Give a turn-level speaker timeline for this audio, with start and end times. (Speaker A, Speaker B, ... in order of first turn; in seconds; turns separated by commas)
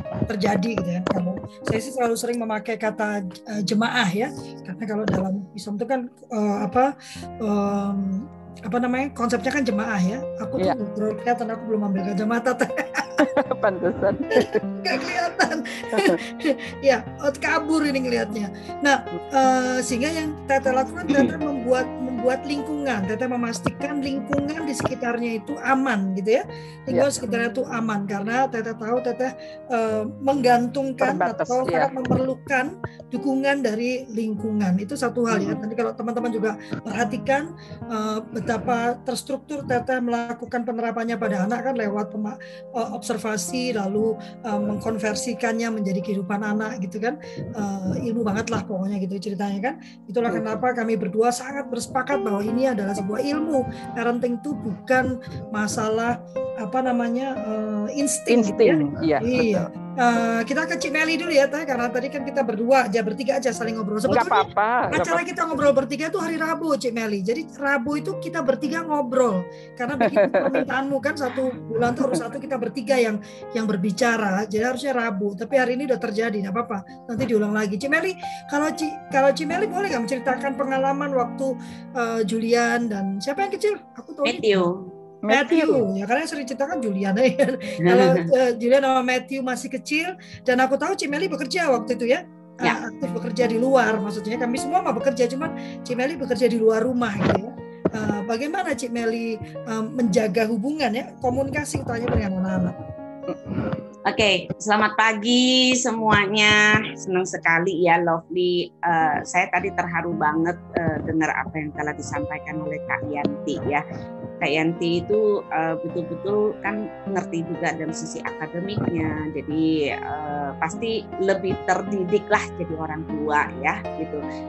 Speaker A: 0.2-13.2, Speaker B: 13.2-14.6, Speaker A: 14.3-84.6, Speaker B: 15.9-16.2, Speaker B: 31.0-31.9, Speaker B: 35.3-35.6, Speaker B: 58.3-59.7, Speaker B: 64.1-65.6, Speaker B: 70.0-70.6, Speaker C: 84.2-84.9, Speaker B: 85.2-85.8, Speaker A: 85.3-102.8, Speaker C: 87.8-88.3, Speaker C: 104.1-113.8, Speaker C: 114.4-124.2